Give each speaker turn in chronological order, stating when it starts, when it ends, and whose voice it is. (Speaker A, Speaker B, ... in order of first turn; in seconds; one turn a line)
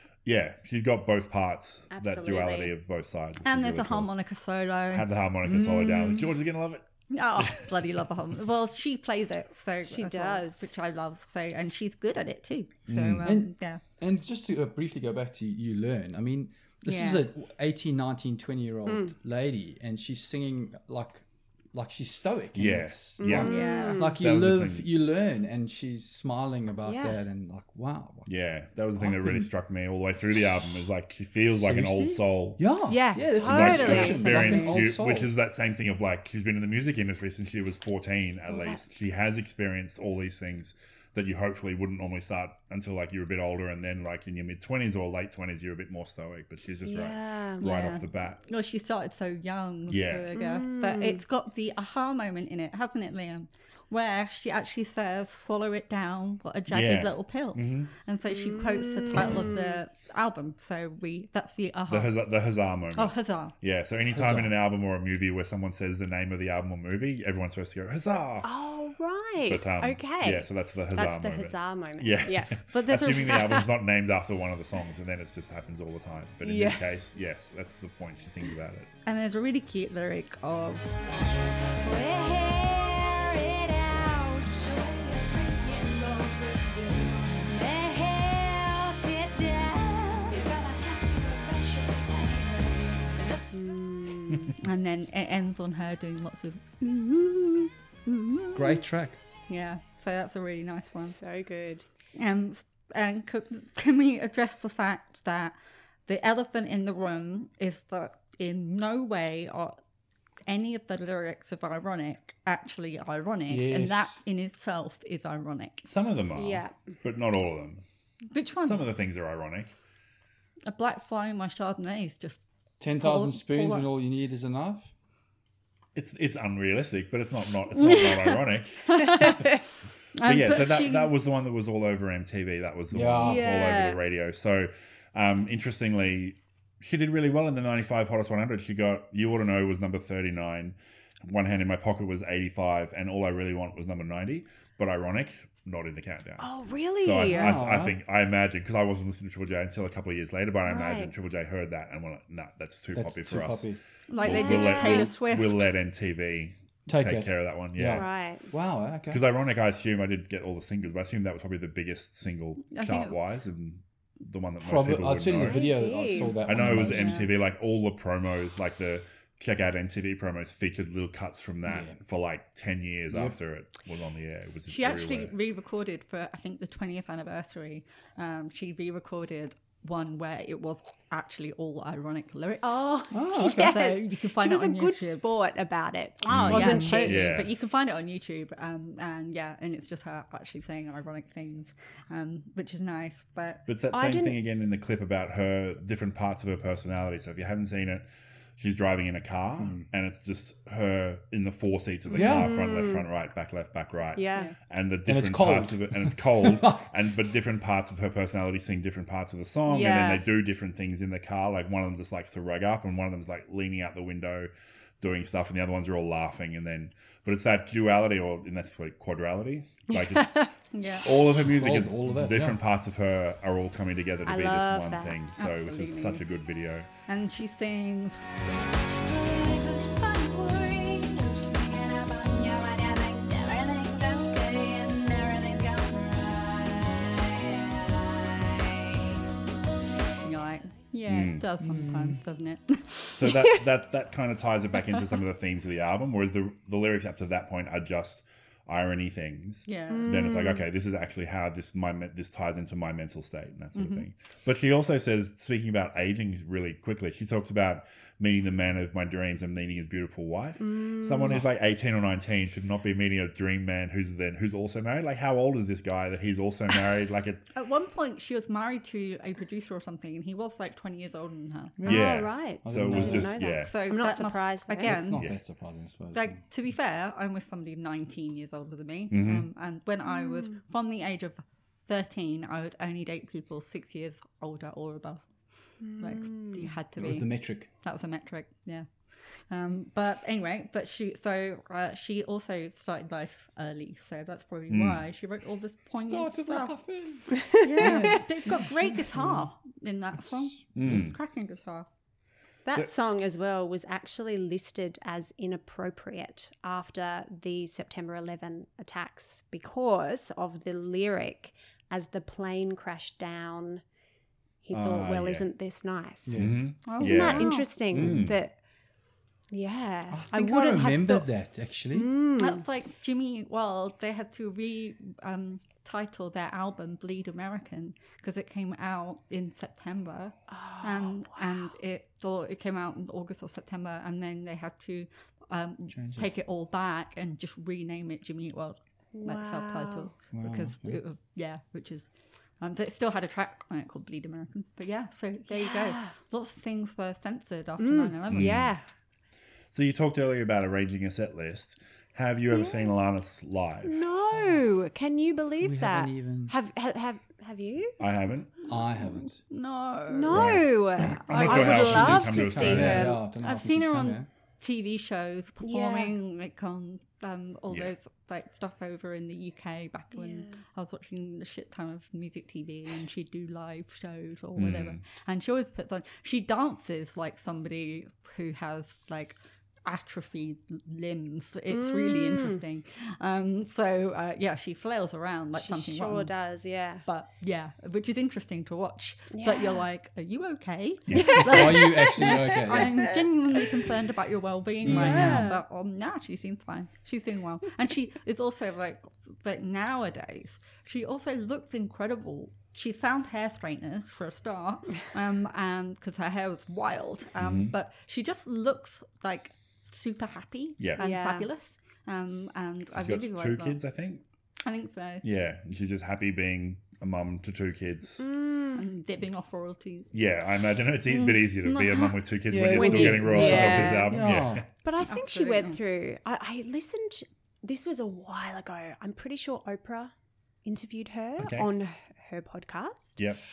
Speaker A: 0.2-4.1
Speaker B: 1.9-2.8
Speaker C: 3.4-5.1
Speaker A: 4.9-6.8
Speaker D: 5.4-6.3
Speaker C: 7.1-13.8
Speaker A: 7.4-7.7
Speaker B: 9.8-10.7
Speaker A: 12.9-13.3
Speaker D: 13.2-28.3
Speaker C: 16.9-17.3
Speaker B: 18.9-19.1
Speaker A: 22.6-24.9
Speaker B: 23.2-24.1
Speaker C: 23.4-24.0
Speaker B: 26.9-27.2
Speaker A: 28.3-48.4
Speaker D: 29.0-29.5
Speaker D: 31.6-35.3
Speaker B: 32.9-34.8
Speaker C: 34.2-34.6
Speaker B: 38.5-38.8
Speaker B: 46.9-47.7
Speaker C: 47.6-62.3
Speaker A: 49.9-50.3
Speaker B: 50.3-51.2
Speaker A: 56.7-57.9
Speaker B: 58.3-59.8
Speaker A: 61.9-68.5
Speaker C: 63.0-63.5
Speaker D: 64.1-64.5
Speaker B: 68.4-72.7
Speaker A: 69.5-78.9
Speaker C: 72.7-73.7
Speaker B: 73.3-73.6
Speaker B: 76.4-76.9
Speaker C: 79.0-80.9
Speaker E: 81.7-93.5
Speaker B: 93.5-94.5
Speaker C: 94.6-98.8
Speaker D: 98.5-99.2
Speaker C: 99.5-101.2
Speaker B: 101.1-101.8
Speaker C: 102.2-109.8
Speaker C: 110.5-115.8
Speaker D: 113.5-114.2
Speaker A: 115.8-117.8
Speaker B: 116.3-116.9
Speaker C: 118.3-118.8
Speaker A: 118.6-119.7
Speaker C: 120.7-122.4
Speaker D: 122.8-124.9
Speaker C: 123.0-123.9
Speaker A: 126.0-129.5
Speaker C: 127.7-129.6
Speaker C: 130.1-131.1
Speaker A: 130.2-158.1
Speaker D: 132.9-133.5
Speaker B: 133.2-134.0
Speaker B: 146.4-147.7
Speaker D: 147.3-148.0
Speaker B: 150.7-151.1
Speaker D: 152.9-153.8
Speaker C: 154.1-155.7
Speaker B: 154.2-155.5
Speaker D: 156.9-159.2
Speaker B: 157.9-158.5
Speaker A: 159.1-175.3
Speaker C: 162.7-163.2
Speaker D: 164.6-167.3
Speaker B: 165.3-166.3
Speaker C: 166.6-167.3
Speaker D: 171.7-172.0
Speaker D: 173.1-173.3
Speaker C: 174.7-185.2
Speaker B: 182.6-187.3
Speaker D: 183.1-183.8
Speaker C: 186.3-193.7
Speaker A: 186.3-187.5
Speaker D: 186.6-187.0
Speaker A: 193.7-198.1
Speaker B: 193.9-194.4
Speaker A: 198.6-226.9
Speaker D: 199.6-199.9
Speaker B: 202.1-203.1
Speaker D: 202.2-202.5
Speaker B: 204.2-204.5
Speaker D: 205.1-206.9
Speaker B: 209.7-210.2
Speaker B: 219.9-220.4
Speaker C: 220.7-221.1
Speaker D: 221.3-222.6
Speaker B: 224.2-225.2
Speaker C: 225.4-226.2
Speaker C: 227.1-228.3
Speaker E: 228.7-239.2
Speaker C: 240.2-243.4
Speaker A: 241.1-241.4
Speaker D: 241.6-242.2
Speaker A: 243.1-267.4
Speaker C: 249.7-250.3
Speaker B: 249.9-250.6
Speaker C: 253.8-254.1
Speaker B: 260.6-261.4
Speaker C: 267.5-271.8
Speaker D: 271.8-273.4
Speaker A: 271.9-273.8
Speaker B: 271.9-275.1
Speaker C: 273.6-275.3
Speaker D: 274.8-276.4
Speaker C: 276.1-301.9
Speaker A: 279.1-279.5
Speaker B: 285.9-286.7
Speaker D: 287.0-287.7
Speaker A: 294.7-295.0
Speaker D: 296.0-299.4
Speaker B: 297.5-298.2
Speaker D: 300.2-301.1
Speaker A: 300.8-301.2
Speaker B: 302.6-313.8
Speaker B: 314.6-318.6
Speaker A: 314.7-315.5
Speaker D: 316.3-316.6
Speaker A: 316.4-318.4
Speaker C: 316.9-317.7
Speaker B: 319.5-321.3
Speaker D: 320.1-322.1
Speaker B: 321.9-322.6
Speaker C: 322.4-348.7
Speaker B: 330.5-331.6
Speaker D: 335.9-336.3
Speaker B: 339.1-340.1
Speaker D: 340.3-341.0
Speaker B: 345.5-346.1
Speaker B: 347.8-348.9
Speaker A: 348.3-348.8
Speaker A: 349.7-354.0
Speaker B: 352.5-352.9
Speaker B: 353.8-358.0
Speaker D: 354.3-354.6
Speaker D: 355.6-356.5
Speaker A: 358.0-358.5
Speaker D: 358.7-359.4
Speaker C: 358.7-360.6
Speaker B: 360.1-363.2
Speaker A: 360.3-363.2
Speaker C: 361.3-361.8
Speaker D: 361.5-364.3
Speaker C: 363.1-386.3
Speaker B: 365.6-366.1
Speaker B: 370.1-370.6
Speaker A: 374.6-375.0
Speaker B: 381.7-382.6
Speaker B: 385.6-387.1
Speaker C: 387.0-413.8
Speaker B: 389.3-389.8
Speaker A: 391.1-391.5
Speaker B: 391.2-393.2
Speaker D: 391.4-393.0
Speaker B: 394.9-395.6
Speaker A: 394.9-395.2
Speaker D: 394.9-395.5
Speaker A: 407.4-407.7
Speaker B: 411.0-411.5
Speaker A: 413.0-414.2
Speaker C: 414.6-415.2
Speaker A: 415.2-418.3
Speaker B: 418.2-418.9
Speaker C: 418.8-420.3
Speaker A: 420.1-424.7
Speaker C: 421.1-422.2
Speaker D: 422.5-424.7
Speaker B: 422.7-424.2
Speaker C: 423.5-423.9
Speaker B: 424.8-433.2
Speaker C: 425.1-425.8
Speaker A: 431.4-431.7